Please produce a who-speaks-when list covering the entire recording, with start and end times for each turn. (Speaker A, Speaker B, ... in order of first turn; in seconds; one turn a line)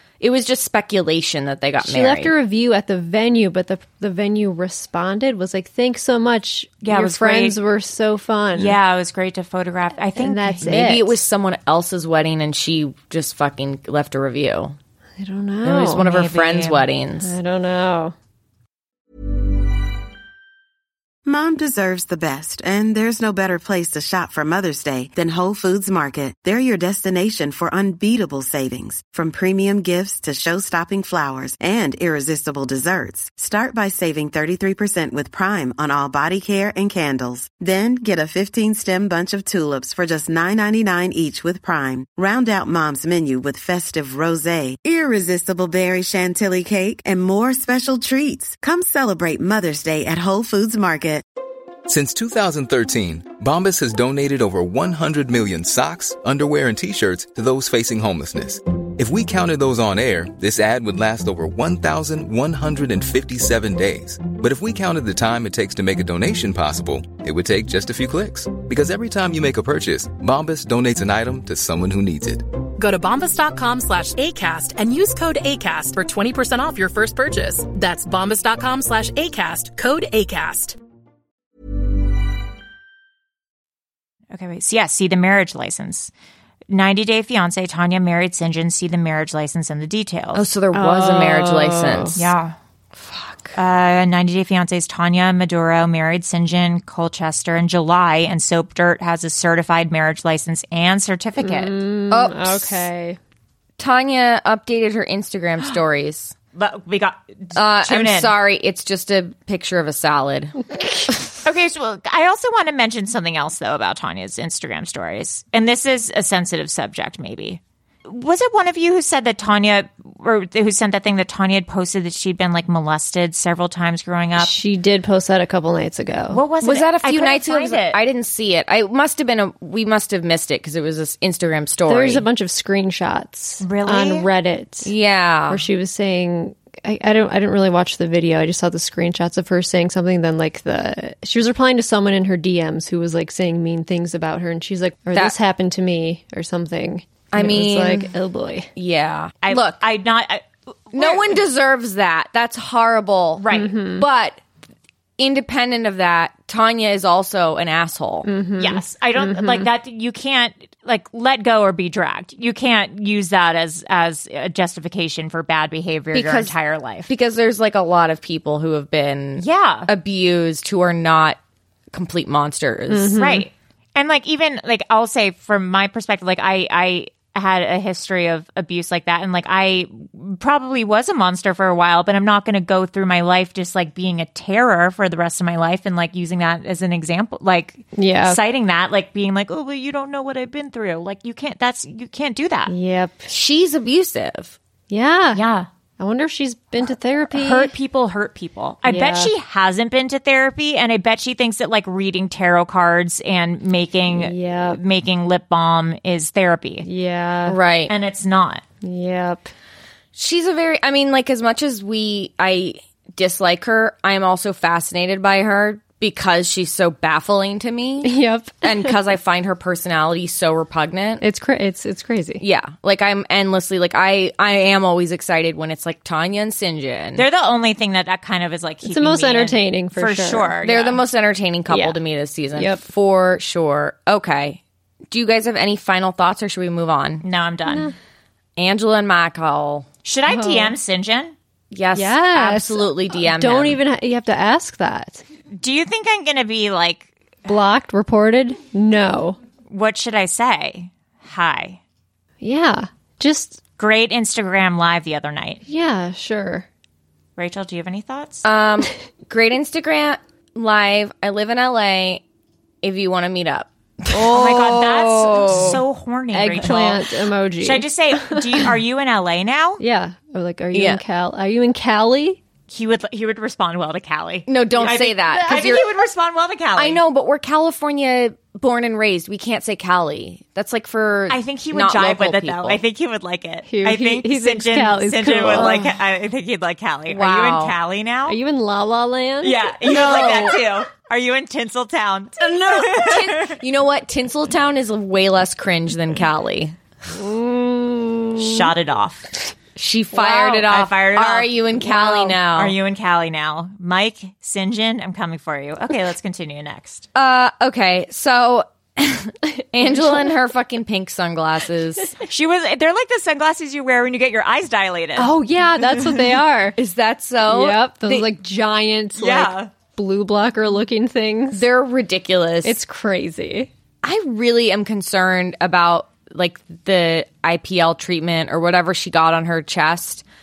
Speaker A: 0.2-2.3
Speaker B: 1.8-8.8
Speaker C: 6.8-7.6
Speaker C: 8.6-10.7
Speaker B: 10.2-11.2
Speaker A: 10.6-14.8
Speaker B: 15.2-16.1
Speaker A: 15.6-17.4
Speaker C: 16.0-16.9
Speaker B: 17.2-18.1
Speaker D: 21.2-51.2
Speaker E: 51.9-72.4
Speaker F: 72.8-80.8
Speaker C: 84.3-86.1
Speaker C: 86.7-90.5
Speaker A: 90.3-92.2
Speaker B: 90.7-92.2
Speaker C: 92.2-92.5
Speaker B: 93.0-93.5
Speaker C: 93.6-101.7
Speaker B: 101.4-103.2
Speaker A: 102.1-102.9
Speaker A: 103.8-106.3
Speaker C: 106.5-108.3
Speaker A: 107.5-110.6
Speaker C: 111.4-124.5
Speaker B: 124.4-126.4
Speaker C: 126.3-128.0
Speaker A: 126.6-132.2
Speaker B: 131.9-134.9
Speaker C: 133.6-134.3
Speaker A: 134.8-135.7
Speaker B: 135.5-148.7
Speaker A: 147.3-148.1
Speaker A: 148.8-149.8
Speaker C: 149.4-151.4
Speaker A: 150.9-154.4
Speaker C: 153.4-153.7
Speaker B: 153.5-154.1
Speaker A: 155.2-158.3
Speaker B: 158.2-159.7
Speaker C: 158.6-167.1
Speaker A: 166.1-166.6
Speaker A: 167.1-171.4
Speaker C: 169.4-169.9
Speaker A: 171.9-173.2
Speaker B: 172.9-173.5
Speaker C: 173.2-192.7
Speaker B: 187.9-188.4
Speaker B: 192.7-193.3
Speaker A: 193.3-194.6
Speaker B: 194.9-195.4
Speaker C: 195.3-195.7
Speaker B: 196.0-197.7
Speaker C: 197.3-206.9
Speaker B: 198.8-199.3
Speaker B: 204.1-204.8
Speaker B: 206.8-207.6
Speaker A: 207.5-207.9
Speaker C: 207.9-208.6
Speaker B: 208.8-209.5
Speaker A: 210.2-221.2
Speaker B: 218.0-218.9
Speaker B: 221.2-222.4
Speaker A: 222.4-227.2
Speaker C: 227.2-231.0
Speaker B: 228.9-230.6
Speaker A: 230.6-234.6
Speaker B: 231.7-232.0
Speaker B: 232.6-232.8
Speaker A: 235.1-237.2
Speaker C: 237.2-237.9
Speaker A: 238.6-239.9
Speaker C: 240.0-241.3
Speaker B: 240.3-240.7
Speaker A: 241.7-243.8
Speaker B: 241.9-245.2
Speaker C: 245.6-247.1
Speaker B: 247.5-249.4
Speaker C: 249.7-251.8
Speaker B: 252.4-253.6
Speaker C: 253.8-255.6
Speaker B: 255.7-256.7
Speaker C: 257.4-258.5
Speaker A: 258.4-262.2
Speaker A: 262.8-265.8
Speaker C: 264.1-267.0
Speaker B: 266.3-268.4
Speaker C: 267.6-269.8
Speaker B: 269.8-272.4
Speaker A: 270.7-271.0
Speaker C: 272.7-277.0
Speaker A: 274.5-275.9
Speaker A: 276.8-282.8
Speaker C: 281.3-288.4
Speaker B: 283.7-285.8
Speaker A: 287.1-287.8
Speaker B: 288.3-289.9
Speaker C: 289.4-293.6
Speaker A: 289.9-290.6
Speaker A: 292.4-296.8
Speaker B: 297.1-298.6
Speaker C: 298.4-299.3
Speaker A: 299.8-302.8
Speaker C: 300.1-307.1
Speaker A: 307.1-312.1
Speaker B: 309.6-310.3
Speaker C: 312.2-315.3
Speaker B: 315.2-316.8
Speaker A: 316.8-318.3
Speaker B: 317.5-321.6
Speaker C: 319.2-319.7
Speaker A: 321.5-322.8
Speaker B: 322.6-323.7
Speaker A: 324.0-330.2